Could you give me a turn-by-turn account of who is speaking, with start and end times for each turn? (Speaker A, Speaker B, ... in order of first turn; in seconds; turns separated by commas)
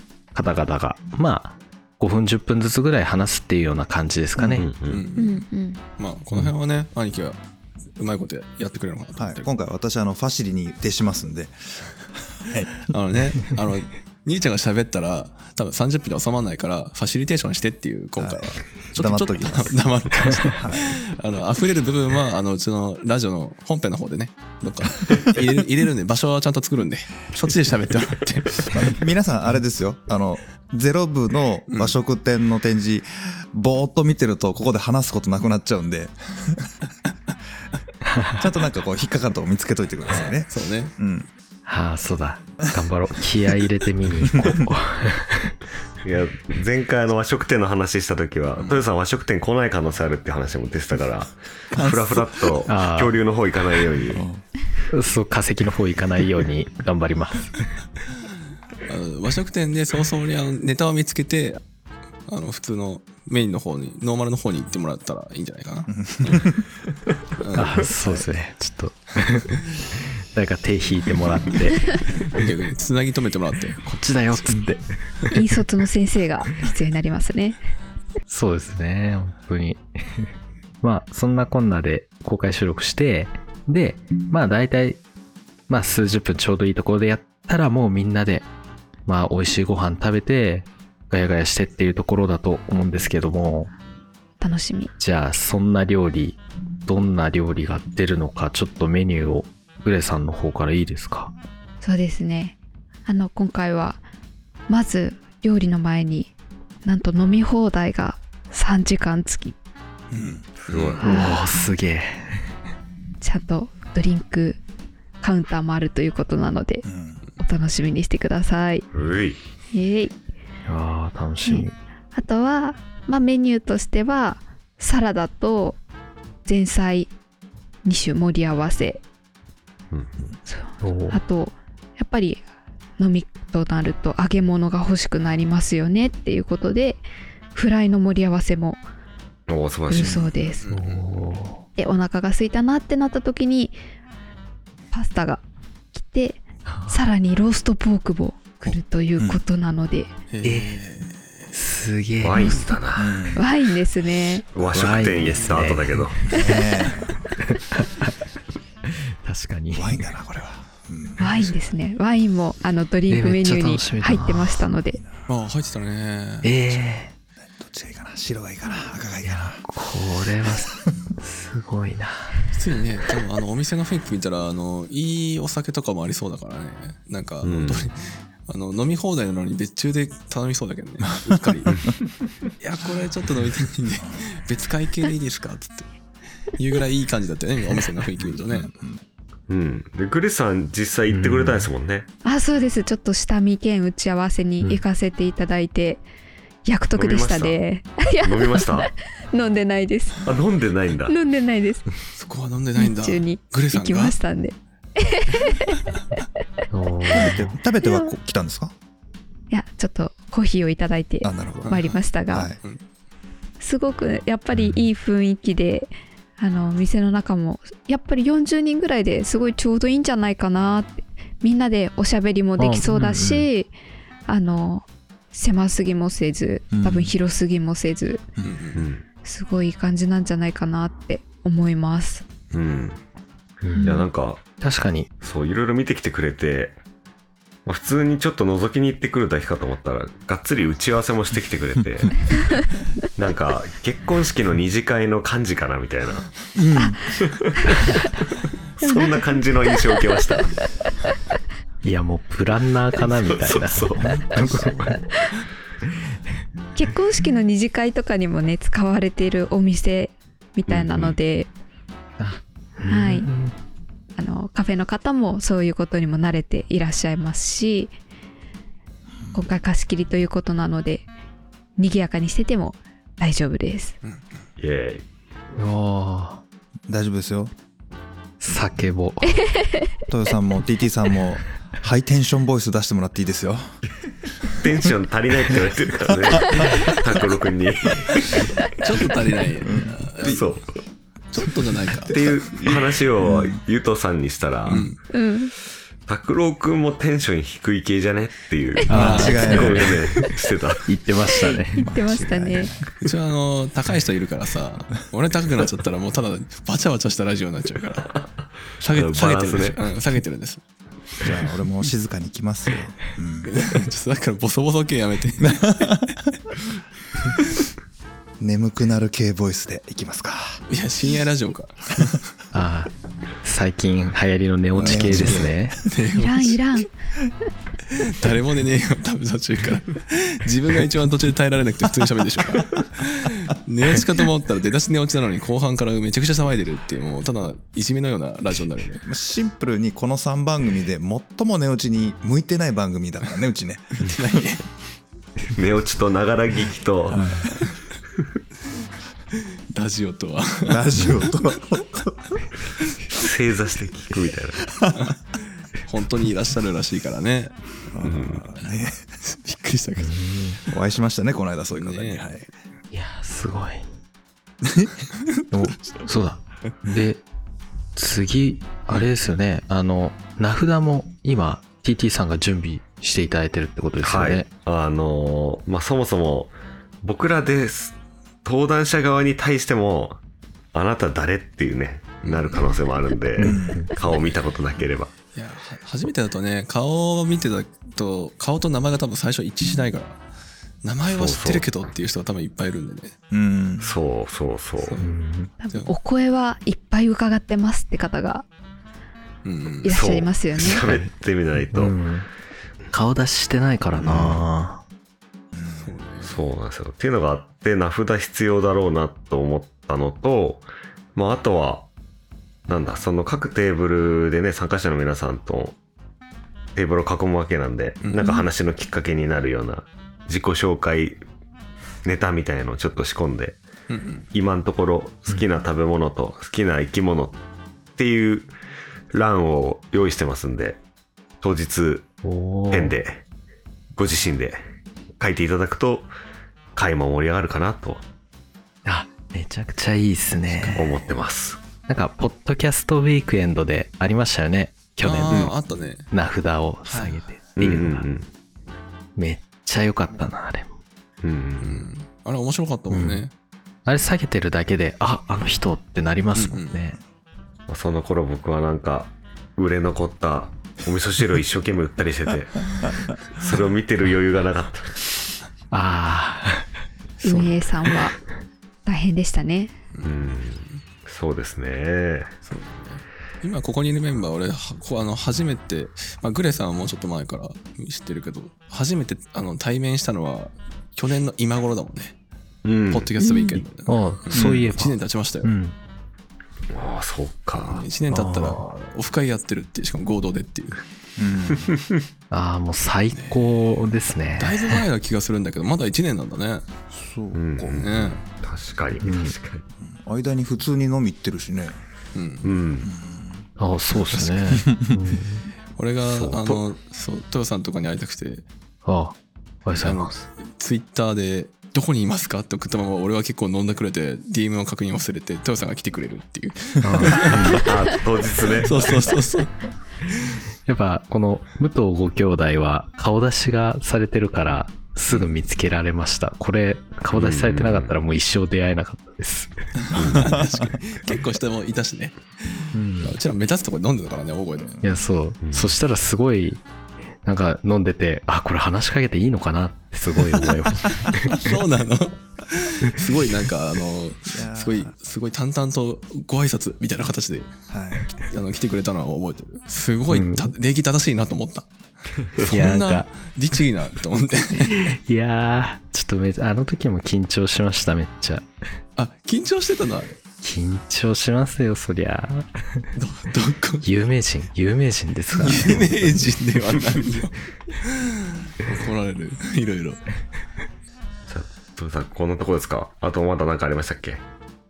Speaker A: 0.3-4.7, Speaker B: 4.6-5.0, Speaker C: 4.9-5.4, Speaker D: 5.2-5.8, Speaker C: 6.0-7.4, Speaker C: 8.0-9.5, Speaker E: 9.2-12.9, Speaker C: 12.9-28.9, Speaker E: 18.2-19.9, Speaker E: 20.5-20.9, Speaker E: 28.7-36.8, Speaker C: 31.7-31.9, Speaker A: 38.1-38.4, Speaker E: 38.4-41.3, Speaker C: 40.0-40.9, Speaker A: 41.6-45.5, Speaker B: 46.0-54.2, Speaker C: 48.6-48.8, Speaker E: 51.7-52.6, Speaker A: 52.6-53.2, Speaker E: 54.1-54.4, Speaker A: 54.9-57.7, Speaker C: 58.9-61.6, Speaker C: 62.3-66.5, Speaker E: 65.9-66.6, Speaker C: 67.4-68.2, Speaker A: 67.5-71.9, Speaker C: 72.2-73.8, Speaker A: 73.8-74.9, Speaker D: 75.3-77.6, Speaker A: 78.3-80.3, Speaker A: 80.8-85.0, Speaker A: 85.7-88.5, Speaker A: 89.0-93.7, Speaker D: 94.4-94.9, Speaker A: 95.0-101.3, Speaker D: 101.8-104.0, Speaker D: 104.7-106.3, Speaker D: 106.8-109.5, Speaker E: 110.1-110.5, Speaker B: 110.6-111.0, Speaker C: 110.7-111.3, Speaker D: 111.0-111.4, Speaker A: 111.0-112.4, Speaker D: 113.2-114.6, Speaker D: 115.2-116.8, Speaker E: 116.8-117.2, Speaker D: 117.4-118.8, Speaker B: 118.9-119.4, Speaker D: 119.7-120.1, Speaker A: 120.7-121.7, Speaker D: 121.4-125.8, Speaker D: 126.4-127.1, Speaker D: 127.8-129.0, Speaker B: 129.9-130.3, Speaker D: 130.4-132.4, Speaker A: 130.8-131.2, Speaker D: 133.0-138.8, Speaker B: 139.5-140.3, Speaker D: 139.9-140.8, Speaker C: 139.9-141.2, Speaker A: 140.7-141.6, Speaker D: 141.8-143.8, Speaker D: 144.9-145.4, Speaker D: 145.9-150.1, Speaker A: 146.6-147.0, Speaker C: 150.3-151.5, Speaker A: 150.4-150.8, Speaker A: 151.5-152.7, Speaker B: 152.2-153.2, Speaker D: 152.4-152.7, Speaker E: 152.9-153.4, Speaker D: 153.3-154.5, Speaker B: 154.5-156.2, Speaker A: 154.7-156.1, Speaker E: 156.3-157.1, Speaker A: 157.4-158.1, Speaker A: 159.2-160.0, Speaker E: 159.7-161.5, Speaker D: 161.2-165.0, Speaker A: 163.1-164.6, Speaker C: 165.3-166.5, Speaker A: 166.4-167.1, Speaker E: 167.4-169.6, Speaker A: 169.2-172.3, Speaker C: 172.5-181.9, Speaker B: 177.4-177.8, Speaker C: 182.6-185.9, Speaker C: 186.5-188.7, Speaker E: 188.2-189.0, Speaker B: 189.5-192.1, Speaker A: 191.1-191.7, Speaker D: 192.2-196.0, Speaker D: 196.6-200.2, Speaker B: 196.9-197.6, Speaker B: 198.2-198.9, Speaker B: 200.2-201.1, Speaker D: 201.0-201.9, Speaker C: 202.2-204.2, Speaker D: 202.8-205.8, Speaker A: 206.7-207.5, Speaker E: 207.1-208.7, Speaker D: 209.5-212.5, Speaker E: 211.2-211.7, Speaker C: 211.6-212.0, Speaker E: 212.3-212.6, Speaker D: 213.6-223.7, Speaker A: 214.5-214.8, Speaker A: 222.6-223.4, Speaker E: 223.0-223.3, Speaker D: 224.2-228.2, Speaker E: 226.7-227.1, Speaker C: 228.4-228.8, Speaker B: 228.7-229.0, Speaker D: 229.2-232.2, Speaker B: 232.5-233.0, Speaker A: 233.6-234.1, Speaker D: 233.8-234.1, Speaker B: 233.8-234.4, Speaker A: 234.6-235.1, Speaker B: 235.2-236.8, Speaker B: 237.7-242.2, Speaker B: 243.2-246.2, Speaker E: 246.5-247.0, Speaker B: 247.2-247.9, Speaker B: 248.8-250.5, Speaker D: 248.8-249.2, Speaker A: 251.8-254.9, Speaker B: 253.0-254.1, Speaker E: 254.0-255.0, Speaker D: 256.7-261.5, Speaker B: 260.7-261.2, Speaker A: 262.2-263.5, Speaker D: 262.9-263.3, Speaker D: 264.1-267.9, Speaker D: 269.3-271.1, Speaker D: 271.8-273.9, Speaker B: 274.6-275.1, Speaker A: 275.6-276.4, Speaker E: 276.9-277.5, Speaker A: 278.4-279.4, Speaker D: 279.4-279.9, Speaker E: 280.1-283.6, Speaker B: 284.6-288.5, Speaker E: 286.3-286.8, Speaker C: 288.7-290.4, Speaker E: 289.6-290.5, Speaker B: 290.2-290.7, Speaker C: 291.3-292.2, Speaker B: 292.1-294.9, Speaker E: 292.5-293.6, Speaker E: 294.7-294.9, Speaker C: 294.7-295.0, Speaker D: 295.1-295.5, Speaker B: 296.1-300.9, Speaker A: 298.9-300.0, Speaker E: 298.9-300.0, Speaker C: 298.9-299.7, Speaker D: 299.1-299.4, Speaker A: 300.9-301.9, Speaker D: 301.8-302.7, Speaker E: 301.8-302.9, Speaker C: 303.0-308.2, Speaker C: 308.8-310.6, Speaker B: 308.9-309.8, Speaker E: 311.2-313.5, Speaker C: 313.4-315.9, Speaker E: 315.6-316.1, Speaker E: 318.4-320.6, Speaker C: 320.7-322.1, Speaker A: 322.5-322.9, Speaker A: 323.4-325.8, Speaker C: 324.7-326.8, Speaker E: 324.8-325.6, Speaker D: 326.1-326.9, Speaker C: 327.9-339.0, Speaker E: 339.1-344.0, Speaker C: 344.0-344.7, Speaker B: 345.5-347.2, Speaker E: 347.1-347.6, Speaker C: 349.7-351.3, Speaker E: 350.7-352.4, Speaker B: 353.1-354.6, Speaker E: 354.6-355.1, Speaker C: 354.9-357.7, Speaker E: 357.9-359.0, Speaker B: 358.0-358.4, Speaker C: 358.6-360.7, Speaker A: 359.9-360.6, Speaker E: 360.7-362.4, Speaker C: 361.7-362.5, Speaker A: 362.9-363.9, Speaker E: 364.6-364.9, Speaker A: 365.5-367.2, Speaker A: 367.9-374.5, Speaker B: 374.0-380.2, Speaker B: 380.7-385.1, Speaker C: 382.2-382.8, Speaker A: 383.4-383.9, Speaker E: 383.4-383.9, Speaker C: 383.9-384.5, Speaker C: 385.3-390.2, Speaker C: 390.8-393.1, Speaker B: 391.1-391.7, Speaker E: 393.3-393.9, Speaker B: 393.8-395.0, Speaker C: 394.8-395.1, Speaker A: 395.0-395.5, Speaker D: 395.6-398.4, Speaker C: 399.4-399.9, Speaker D: 399.8-400.8, Speaker B: 399.9-401.9, Speaker A: 401.7-402.3, Speaker A: 402.9-404.8, Speaker B: 404.0-404.5, Speaker E: 405.5-406.0, Speaker C: 405.7-406.4, Speaker B: 406.2-411.9, Speaker B: 412.7-415.8, Speaker B: 416.7-421.2, Speaker C: 418.0-418.3, Speaker B: 422.0-423.6, Speaker C: 423.9-424.2, Speaker B: 424.3-427.4, Speaker B: 428.0-428.5, Speaker B: 429.1-430.8, Speaker B: 431.4-432.1, Speaker A: 432.2-433.0, Speaker B: 432.7-433.2, Speaker B: 434.0-434.6, Speaker B: 435.2-436.1, Speaker B: 436.7-438.0, Speaker A: 438.8-441.0, Speaker C: 440.5-440.8, Speaker B: 440.7-441.6, Speaker A: 441.9-445.5, Speaker C: 445.0-446.1, Speaker A: 446.1-448.1, Speaker C: 446.9-447.2, Speaker B: 447.6-448.3, Speaker A: 449.2-450.7, Speaker B: 451.2-451.9, Speaker C: 451.6-453.3, Speaker A: 452.9-453.3, Speaker A: 453.9-457.0, Speaker C: 456.3-456.8, Speaker B: 457.7-462.5, Speaker B: 463.4-465.1, Speaker A: 465.7-466.6, Speaker C: 467.2-467.6, Speaker D: 467.2-468.2, Speaker D: 468.8-469.7, Speaker B: 470.0-472.3, Speaker C: 472.4-482.1, Speaker B: 482.6-483.1, Speaker C: 482.9-485.5, Speaker D: 483.2-483.6, Speaker A: 483.9-485.7, Speaker E: 484.3-484.6, Speaker B: 486.7-487.8, Speaker C: 487.5-490.8, Speaker A: 488.1-488.6, Speaker E: 491.2-491.7, Speaker B: 491.7-492.0, Speaker A: 492.3-494.8, Speaker C: 493.1-493.5, Speaker C: 494.4-496.6, Speaker E: 496.9-498.2, Speaker B: 497.3-499.6, Speaker C: 497.8-498.2, Speaker A: 499.0-499.3, Speaker E: 499.8-501.8, Speaker C: 502.1-502.5, Speaker B: 502.4-502.9, Speaker E: 502.8-503.4, Speaker A: 503.6-505.4, Speaker C: 504.0-504.6, Speaker C: 505.8-508.4, Speaker B: 506.0-506.6, Speaker A: 508.8-510.1, Speaker C: 509.8-517.8, Speaker A: 516.8-517.6, Speaker B: 517.2-518.7, Speaker C: 518.6-519.5, Speaker A: 520.6-529.6, Speaker B: 527.1-528.0, Speaker C: 529.9-534.7, Speaker B: 529.9-530.3, Speaker A: 532.7-533.2, Speaker A: 534.8-536.6, Speaker B: 535.4-535.8, Speaker A: 537.2-541.4, Speaker C: 541.0-547.5, Speaker E: 544.3-544.9, Speaker E: 547.7-548.1, Speaker C: 548.1-551.6, Speaker A: 550.1-550.5, Speaker C: 552.4-554.8, Speaker A: 552.5-553.1, Speaker A: 554.6-558.5, Speaker C: 559.0-560.2, Speaker A: 560.4-562.9, Speaker C: 563.0-563.9, Speaker A: 563.8-566.3, Speaker C: 565.3-570.0, Speaker B: 571.3-574.2